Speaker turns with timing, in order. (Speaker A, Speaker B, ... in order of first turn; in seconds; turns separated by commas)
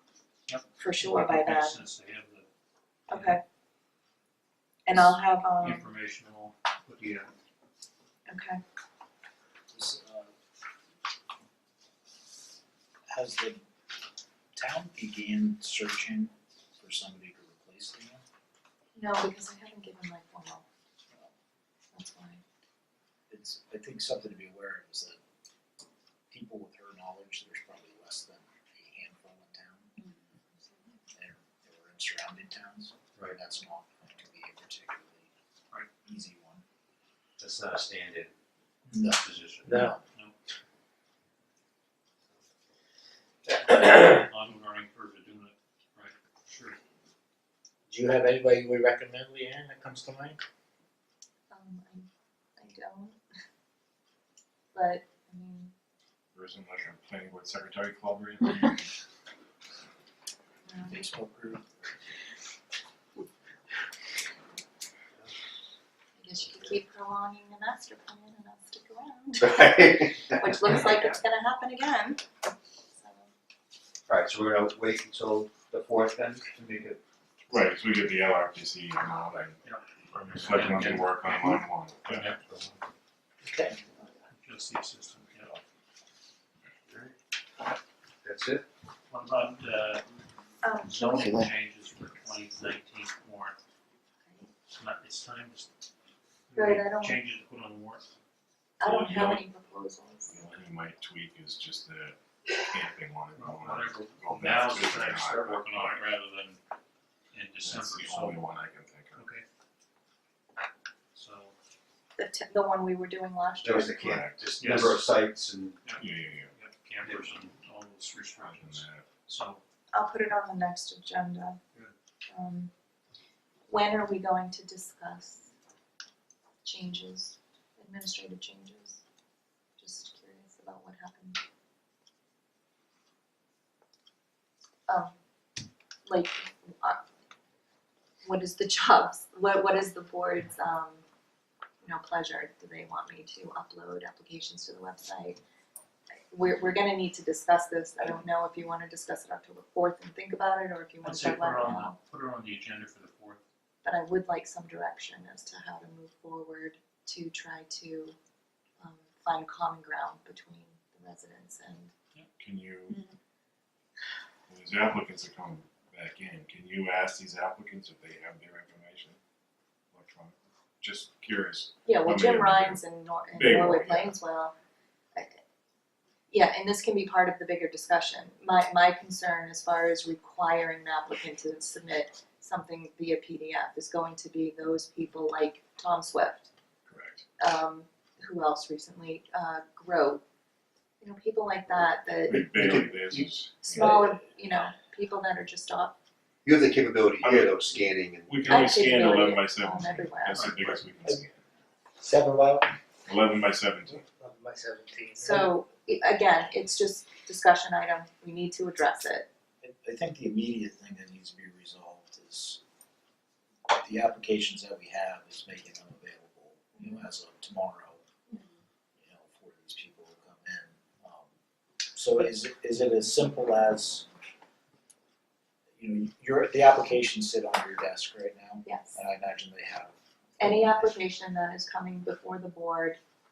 Speaker A: 0.5-2.5, Speaker B: 0.8-1.8, Speaker A: 3.1-3.4, Speaker B: 3.1-3.4, Speaker B: 4.8-5.9, Speaker A: 4.9-7.3, Speaker B: 8.3-8.6, Speaker C: 9.7-10.3, Speaker C: 13.1-13.7, Speaker C: 14.6-18.2, Speaker B: 18.9-20.7, Speaker B: 21.9-22.4, Speaker C: 23.3-25.2, Speaker C: 26.3-29.9, Speaker C: 31.1-35.3, Speaker C: 36.0-36.6, Speaker D: 37.4-38.3, Speaker C: 38.9-40.0, Speaker D: 39.0-39.9, Speaker A: 43.5-46.8, Speaker E: 47.9-50.4, Speaker B: 51.5-53.2, Speaker B: 54.7-55.7, Speaker F: 56.3-58.7, Speaker B: 60.7-61.0, Speaker C: 60.9-61.8, Speaker B: 66.2-72.2, Speaker D: 69.4-70.8, Speaker B: 73.0-73.3, Speaker D: 74.1-77.0, Speaker F: 77.5-79.6, Speaker A: 79.6-82.4, Speaker F: 80.1-82.4, Speaker C: 83.4-83.8, Speaker A: 84.3-85.6, Speaker D: 86.9-87.2, Speaker D: 88.2-88.7, Speaker A: 89.1-90.2, Speaker B: 90.6-91.3, Speaker A: 90.8-93.6, Speaker A: 94.7-95.7, Speaker A: 96.5-98.1, Speaker B: 96.5-97.2, Speaker B: 98.8-100.3, Speaker F: 98.8-99.5, Speaker F: 100.2-106.0, Speaker A: 103.3-106.6, Speaker A: 107.3-108.4, Speaker F: 107.6-109.3, Speaker A: 109.2-109.5, Speaker A: 111.1-111.5, Speaker B: 112.2-114.0, Speaker D: 113.6-115.8, Speaker F: 113.9-114.8, Speaker A: 114.6-115.0, Speaker A: 115.8-119.6, Speaker F: 116.0-116.5, Speaker F: 118.5-119.1, Speaker B: 119.9-121.6, Speaker B: 122.3-122.7, Speaker B: 123.7-125.5, Speaker B: 126.6-129.0, Speaker B: 129.8-131.4, Speaker B: 134.9-135.2, Speaker B: 136.1-137.0, Speaker B: 138.2-141.1, Speaker B: 141.8-145.4, Speaker B: 146.3-152.0, Speaker A: 151.0-153.4, Speaker B: 153.8-158.2, Speaker B: 158.8-161.9, Speaker F: 162.4-163.1, Speaker F: 164.5-169.2, Speaker F: 169.9-172.8, Speaker B: 171.9-174.6, Speaker F: 173.3-174.1, Speaker B: 175.2-175.4, Speaker B: 176.3-186.5, Speaker F: 186.9-187.2, Speaker B: 187.4-190.2, Speaker B: 191.0-192.4, Speaker F: 192.3-194.1, Speaker D: 192.3-193.3, Speaker B: 193.6-195.9, Speaker D: 196.4-198.7, Speaker F: 197.2-197.6, Speaker F: 198.3-201.4, Speaker B: 198.5-200.5, Speaker A: 200.3-200.7, Speaker E: 202.0-202.7, Speaker F: 203.1-204.0, Speaker E: 203.9-205.5, Speaker B: 205.2-209.3, Speaker C: 209.6-212.6, Speaker C: 213.7-218.0, Speaker C: 219.0-221.3, Speaker C: 221.9-224.1, Speaker C: 225.8-230.9, Speaker B: 228.7-229.0, Speaker B: 230.4-233.0